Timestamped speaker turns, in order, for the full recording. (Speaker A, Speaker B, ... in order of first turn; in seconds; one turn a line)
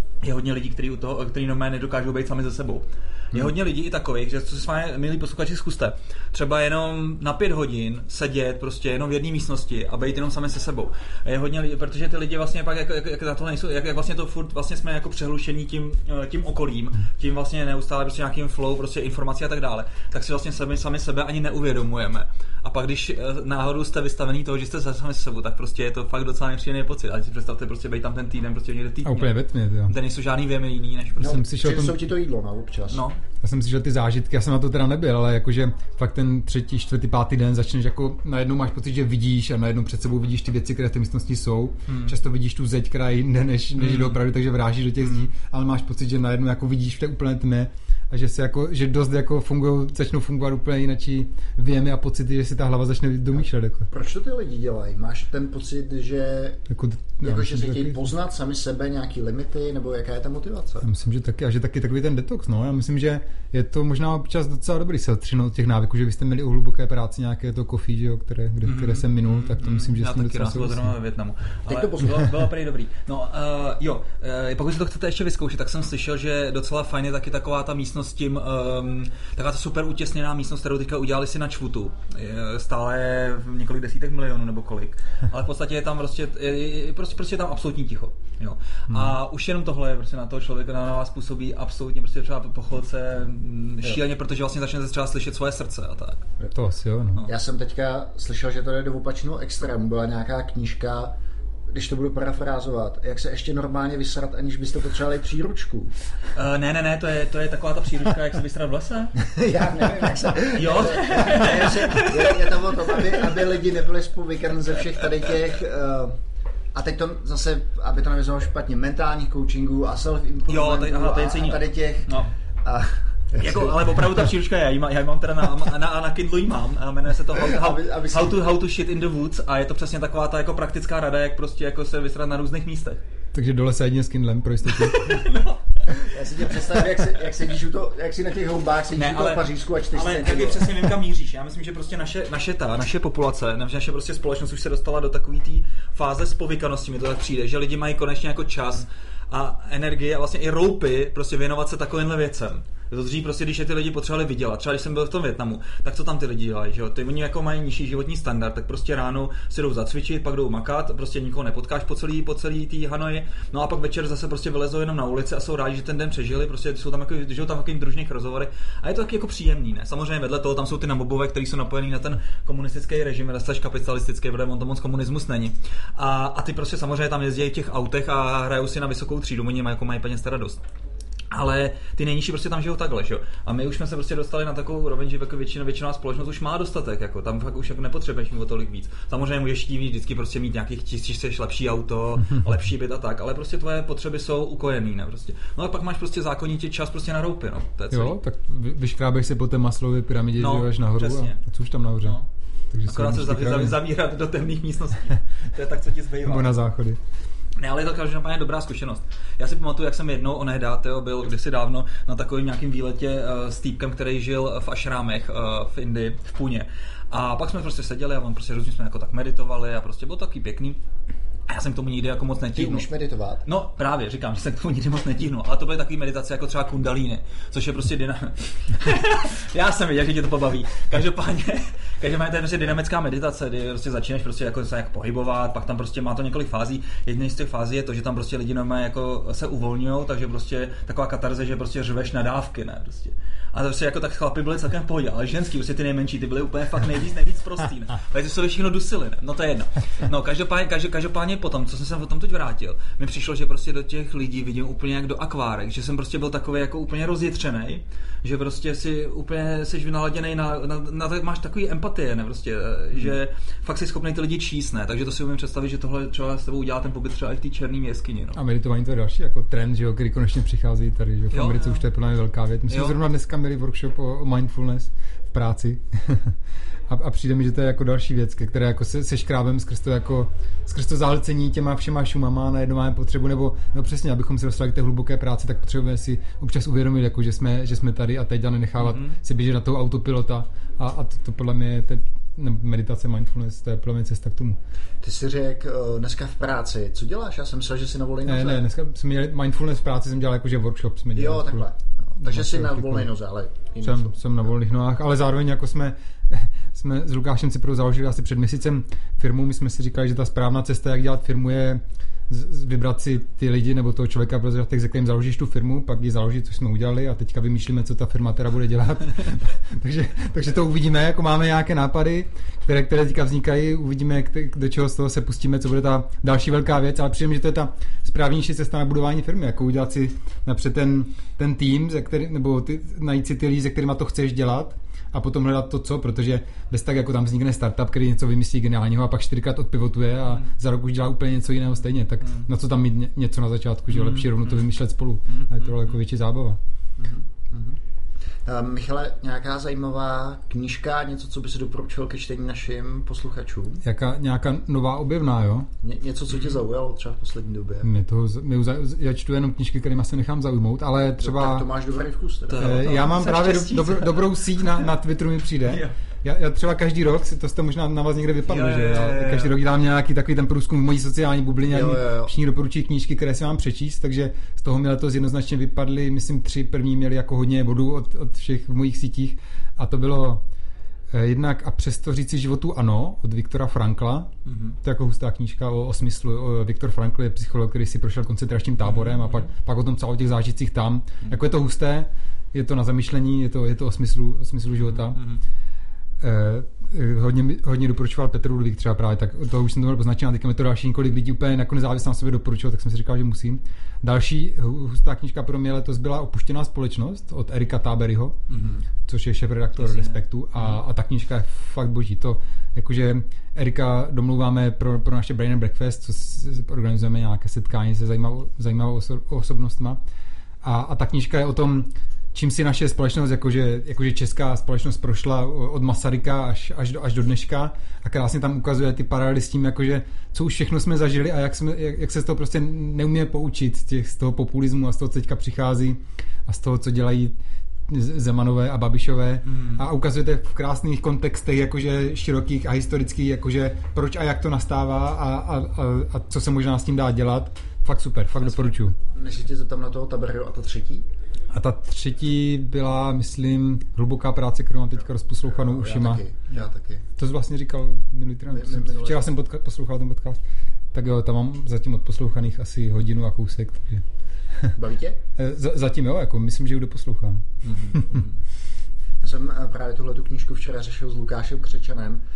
Speaker A: 0.2-31.4
Speaker B: 29.1-29.9
Speaker C: 31.2-33.0
Speaker B: 31.2-32.1
Speaker A: 32.9-33.2
Speaker B: 33.4-53.9
Speaker A: 41.9-42.1
Speaker A: 43.8-44.2
Speaker A: 45.0-45.3
Speaker C: 53.9-56.6
Speaker B: 56.7-58.1
Speaker C: 57.2-60.9
Speaker B: 60.8-70.9
Speaker A: 68.6-96.3
Speaker C: 71.7-72.3
Speaker B: 88.9-89.2
Speaker B: 96.5-97.2
Speaker C: 97.3-101.2
Speaker C: 101.7-105.9
Speaker A: 106.3-109.2
Speaker C: 109.2-116.2
Speaker A: 110.5-113.2
Speaker C: 116.7-124.0
Speaker A: 120.5-122.3
Speaker A: 123.4-133.0
Speaker C: 127.3-128.4
Speaker B: 133.3-135.2
Speaker A: 134.7-136.2
Speaker C: 135.9-140.9
Speaker A: 138.9-180.6
Speaker A: 181.3-198.2
Speaker B: 197.9-202.2
Speaker A: 200.4-201.4
Speaker B: 202.7-203.8
Speaker A: 202.9-206.5
Speaker B: 206.2-207.0
Speaker A: 207.6-220.8
Speaker A: 221.5-222.9
Speaker C: 222.6-223.4
Speaker A: 223.4-268.4
Speaker B: 268.3-276.4
Speaker A: 271.3-271.8
Speaker A: 272.7-273.0
Speaker B: 276.9-294.6
Speaker A: 288.8-289.2
Speaker C: 295.0-298.6
Speaker B: 298.3-301.7
Speaker C: 301.1-304.1
Speaker B: 302.2-303.1
Speaker B: 303.8-346.6
Speaker A: 342.2-342.5
Speaker A: 343.9-344.7
Speaker A: 345.3-345.9
Speaker C: 347.0-347.8
Speaker C: 348.5-353.8
Speaker B: 353.8-355.7
Speaker C: 355.8-357.9
Speaker A: 356.3-356.6
Speaker B: 357.8-361.7
Speaker C: 361.2-362.7
Speaker A: 362.5-364.8
Speaker B: 362.6-380.4
Speaker A: 365.7-365.9
Speaker A: 368.5-369.6
Speaker C: 371.7-372.3
Speaker B: 381.1-384.3
Speaker A: 384.5-384.8
Speaker B: 384.8-395.2
Speaker A: 388.8-389.5
Speaker A: 394.8-395.4
Speaker B: 396.2-420.0
Speaker A: 408.5-408.8
Speaker A: 409.8-410.8
Speaker B: 420.6-437.4
Speaker B: 437.9-448.9
Speaker A: 439.5-439.8
Speaker C: 448.5-451.0
Speaker B: 451.5-456.2
Speaker C: 455.4-457.1
Speaker B: 457.2-460.4
Speaker C: 458.5-459.3
Speaker B: 460.9-464.1
Speaker C: 464.8-465.2
Speaker B: 465.4-468.2
Speaker A: 467.6-468.3
Speaker C: 469.2-472.2